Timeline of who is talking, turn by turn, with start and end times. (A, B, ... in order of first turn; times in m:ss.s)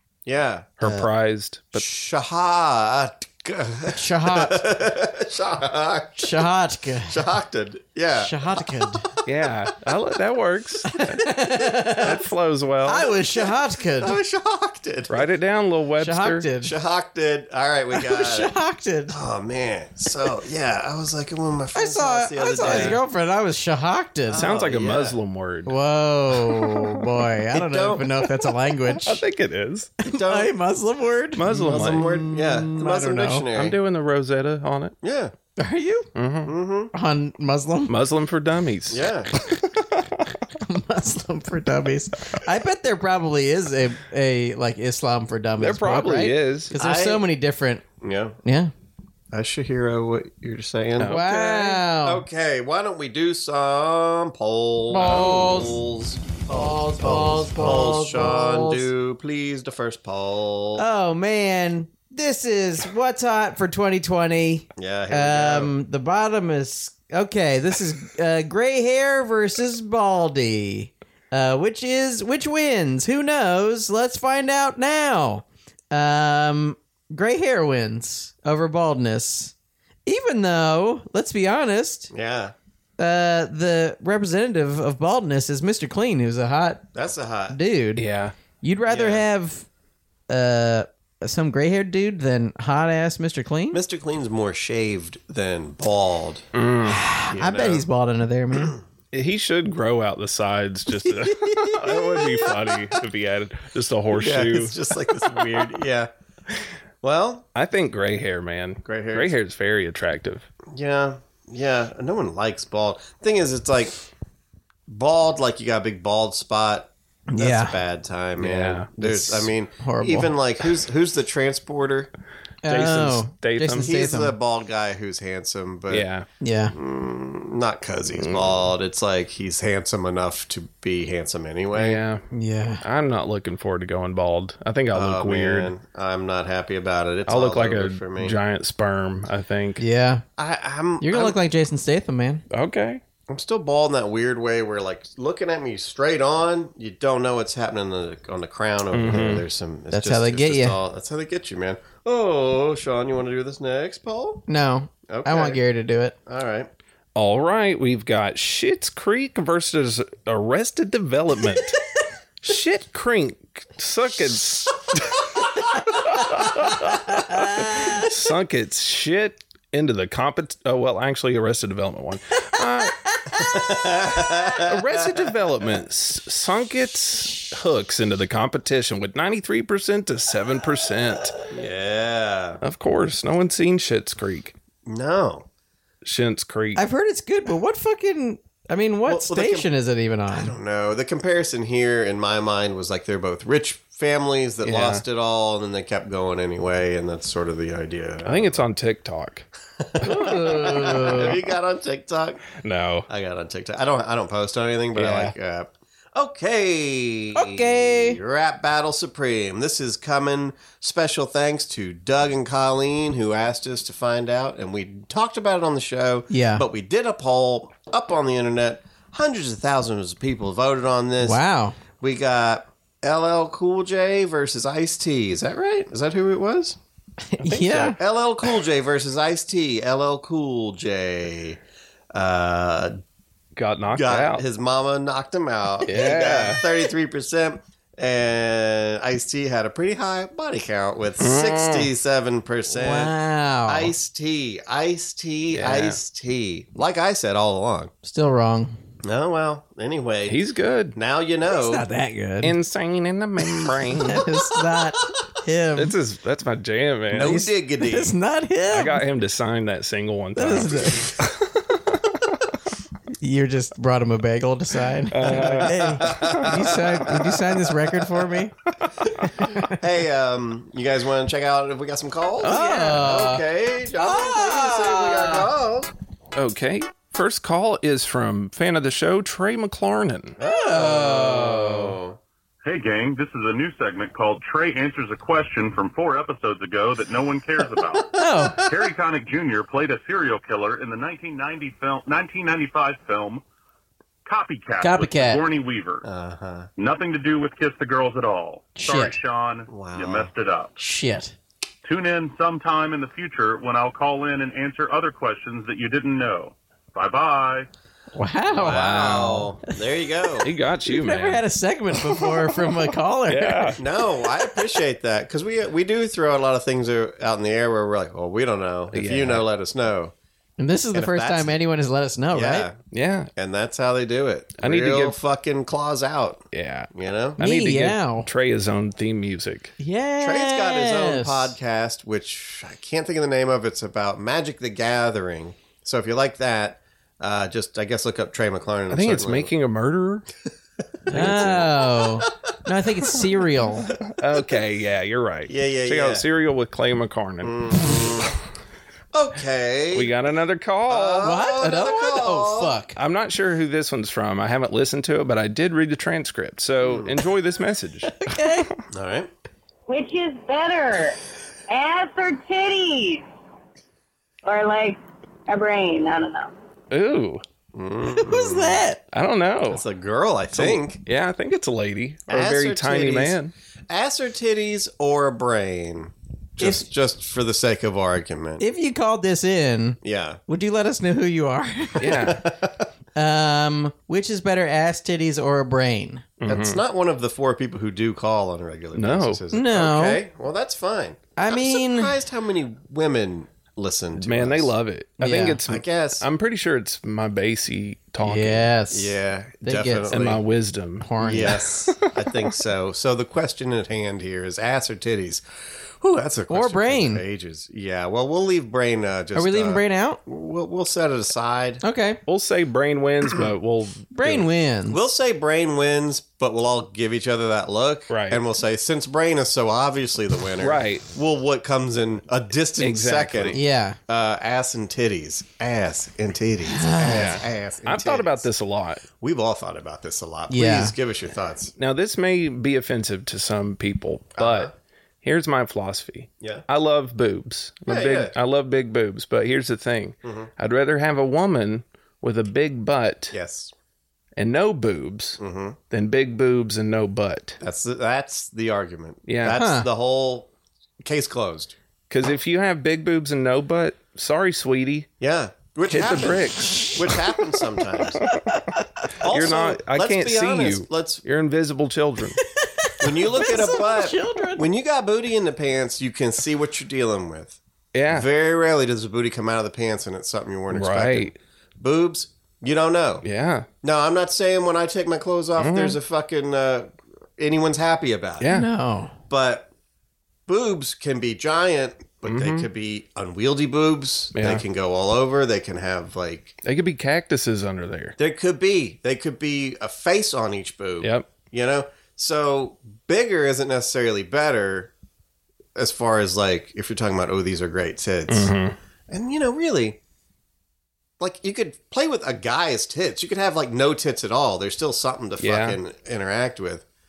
0:00.2-0:00.8 A
0:00.8-0:01.8 B
0:01.7-0:06.5 A
0:03.9-0:04.6 C
0:06.2-0:07.2 C
0:07.1-0:09.0 A
0:08.1-0:09.1 C
0:09.2-0:11.2 B
0:11.0-0:12.2 C
0:12.0-0:13.1 B
0:12.8-0:14.1 C
0:13.4-0:15.3 A
0:15.1-0:16.5 B
0:16.0-0:16.7 C
0:16.6-0:18.5 A
0:17.9-0:19.2 C
0:19.1-0:23.0 A
0:21.7-0:24.4 C
0:22.6-0:23.0 B
0:24.3-0:25.2 A
0:24.3-0:25.7 B
0:25.6-0:29.2 C
0:26.4-0:27.0 B
0:27.5-0:28.2 A
0:28.9-0:29.9 B
0:30.0-0:33.4 C
0:30.1-0:30.5 A
0:31.4-0:32.1 B
0:31.5-0:33.8 A
0:33.5-0:34.9 B
0:35.0-0:35.3 A
0:35.6-0:36.1 C
0:36.1-0:36.5 B
0:36.4-0:36.9 A
0:36.9-0:37.9 C
0:37.9-0:40.2 B
0:38.9-0:39.3 A
0:40.6-0:47.8 C
0:45.6-0:46.7 B
0:46.7-0:47.2 A
0:48.0-0:48.4 A
0:48.4-0:48.7 C
0:49.3-1:00.8 A
0:51.0-0:51.5 B
0:51.1-0:52.2 C
0:54.9-0:55.7 C
0:55.0-0:55.6 B
0:56.5-0:58.9 C
1:00.8-1:19.5 C
1:04.8-1:05.7 A
1:20.0-1:22.1 C
1:22.1-1:22.5 A
1:23.0-1:26.8 C
1:26.9-1:27.6 A
1:27.5-1:28.0 C
1:28.0-1:28.3 B
1:28.6-1:29.7 C
1:28.8-1:29.2 A
1:30.3-1:33.8 C
1:33.7-1:36.4 A
1:36.5-1:37.0 B
1:36.9-1:38.8 C
1:37.3-1:37.8 A
1:38.5-1:38.8 A
1:39.1-1:44.8 B
1:44.1-1:46.1 A
1:47.0-1:47.5 A
1:47.5-1:50.5 B
1:48.8-1:49.3 A
1:50.7-1:54.0 A
1:54.9-2:02.1 A
1:57.3-1:57.8 C
1:58.4-1:58.9 B
1:59.0-2:00.3 C
2:02.6-2:04.3 C
2:02.7-2:03.9 B
2:03.8-2:06.1 A
2:05.9-2:06.3 B
2:06.4-2:06.7 C
2:06.7-2:12.0 A
2:08.2-2:08.6 B
2:11.7-2:12.2 B
2:12.3-2:12.8 C
2:12.8-2:15.7 B
2:14.9-2:18.4 A
2:17.3-2:19.8 B
2:19.8-2:20.2 C
2:20.4-2:21.4 A
2:21.0-2:22.4 C
2:22.5-2:23.0 B
2:23.3-2:34.4 A
2:28.9-2:29.4 B
2:29.9-2:30.8 C
2:34.5-2:36.1 C
2:35.1-2:35.6 A
2:36.2-2:36.7 A
2:37.1-2:41.8 B
2:42.4-2:45.2 B
2:45.9-2:53.0 B
2:47.1-2:48.1 C
2:53.4-2:55.3 A
2:54.6-3:01.4 B
3:01.5-3:02.6 A
3:02.6-3:04.5 B
3:04.8-3:05.5 A
3:06.0-3:06.8 B
3:06.8-3:10.5 C
3:09.0-3:09.7 A
3:10.3-3:18.6 A
3:14.6-3:15.0 B
3:18.2-3:19.5 B
3:19.8-3:22.5 A
3:20.0-3:21.3 C
3:22.6-3:23.1 B
3:23.1-3:41.4 A
3:25.0-3:25.3 B
3:27.3-3:28.2 C
3:36.3-3:36.6 C
3:41.2-3:41.8 C
3:42.0-3:46.8 A
3:47.3-3:48.0 C
3:47.4-3:51.6 A
3:52.1-3:53.0 A
3:53.6-3:54.4 B
3:53.9-4:03.1 A
3:55.9-3:56.6 B
4:01.2-4:01.9 B
4:02.7-4:03.9 C
4:03.7-4:07.9 A
4:05.5-4:06.0 B
4:08.0-4:08.7 C
4:09.0-4:10.4 A
4:10.3-4:11.0 B
4:10.9-4:11.8 A
4:11.5-4:12.5 C
4:12.4-4:14.2 B
4:14.1-4:15.9 C
4:15.8-4:17.4 B
4:17.1-4:18.2 A
4:17.2-4:19.0 C
4:18.7-4:22.3 B
4:20.4-4:21.1 C
4:23.2-4:28.5 C
4:25.1-4:26.7 B
4:25.2-4:27.4 A
4:28.8-4:29.3 B
4:29.4-4:35.9 A
4:29.4-4:29.7 C
4:32.4-4:35.5 C
4:36.3-4:40.4 B
4:40.4-4:42.2 A
4:40.4-4:41.6 C
4:41.1-4:41.9 B
4:42.6-4:53.4 D
4:48.1-4:48.6 C
4:54.2-4:56.0 D
4:54.8-4:55.4 C
4:56.0-4:56.7 A
4:56.8-5:00.7 D
4:58.8-4:59.2 C
4:59.7-5:00.3 A
5:00.8-5:01.3 C
5:01.8-5:07.7 D
5:08.1-5:09.1 C
5:08.5-5:10.5 A
5:08.6-5:09.5 B
5:10.4-5:11.4 B
5:10.8-5:13.8 C
5:13.3-5:13.8 B
5:13.8-5:20.1 A
5:18.9-5:19.4 B
5:20.6-5:22.7 C
5:20.9-5:21.5 A
5:22.3-5:22.8 A
5:22.9-5:23.3 B
5:23.4-5:27.4 A
5:24.6-5:25.2 B
5:26.5-5:29.7 B
5:27.4-5:28.3 C
5:29.8-5:31.5 C
5:30.2-5:39.5 A
5:38.9-5:40.3 B
5:41.1-5:42.3 A
5:41.1-5:41.6 B
5:41.1-5:43.9 C
5:43.9-5:44.5 A
5:44.2-5:47.6 B
5:45.5-5:46.2 A
5:47.4-5:48.4 A
5:49.1-5:50.1 A
5:49.9-5:51.3 B
5:50.9-5:52.8 A
5:51.2-5:53.0 C
5:53.0-5:58.4 B
5:56.8-5:57.1 A
5:58.2-5:58.7 C
5:58.9-5:59.3 A
5:59.9-6:01.2 E
6:01.7-6:03.2 E
6:04.4-6:06.5 E
6:06.9-6:07.4 B
6:07.7-6:08.8 A
6:08.2-6:09.0 C
6:09.1-6:09.8 B
6:09.7-6:11.0 A
6:10.5-6:13.5 B
6:12.3-6:13.4 A
6:13.9-6:18.6 A
6:18.6-6:22.4 C
6:20.0-6:20.4 A
6:22.0-6:22.4 B
6:22.0-6:22.9 A
6:23.2-6:26.2 C
6:26.4-6:26.8 B
6:26.4-6:34.7 A
6:28.9-6:29.4 B
6:29.5-6:30.2 C
6:31.4-6:32.2 C
6:34.2-6:38.7 B
6:35.2-6:35.6 C
6:35.6-6:36.2 A
6:38.2-6:40.2 C
6:38.9-6:40.4 A
6:40.1-6:42.1 B
6:41.0-6:41.6 C
6:41.2-6:45.4 A
6:46.0-6:51.8 A
6:46.5-6:47.2 C
6:49.3-6:50.2 C
6:51.8-6:52.2 C
6:52.3-6:54.4 B
6:54.1-6:55.0 C
6:54.9-7:08.5 A
6:58.1-6:58.4 B
7:00.6-7:01.0 B
7:02.8-7:03.6 B
7:03.5-7:04.0 C
7:06.7-7:07.3 C
7:07.1-7:09.0 B
7:09.2-7:11.7 A
7:10.5-7:10.9 C
7:11.8-7:23.3 B
7:14.4-7:14.7 A
7:17.8-7:18.3 A
7:20.2-7:20.5 A
7:23.3-7:23.7 A
7:24.4-7:25.4 B
7:25.4-7:25.8 A
7:25.9-7:27.6 B
7:27.6-7:30.5 A
7:29.3-7:29.6 B
7:29.5-7:29.9 C
7:31.0-7:31.8 A
7:32.1-7:35.1 B
7:35.2-7:38.2 A
7:35.9-7:37.1 B
7:39.1-7:42.4 B
7:39.2-7:41.2 A
7:42.4-7:44.7 C
7:43.0-7:53.2 A
7:47.9-7:48.3 B
7:50.7-7:51.4 B
7:53.2-7:53.7 B
7:53.8-7:58.5 A
7:55.6-7:56.0 B
7:58.4-7:58.7 B
7:58.5-7:59.1 C
7:59.3-7:59.7 A
8:00.5-8:06.6 A
8:02.2-8:02.7 B
8:04.3-8:04.6 B
8:06.6-8:08.2 B
8:08.2-8:14.9 A
8:11.0-8:11.3 B
8:15.7-8:18.5 A
8:18.3-8:18.7 B
8:19.1-8:20.0 A
8:21.2-8:26.8 A
8:25.4-8:25.8 B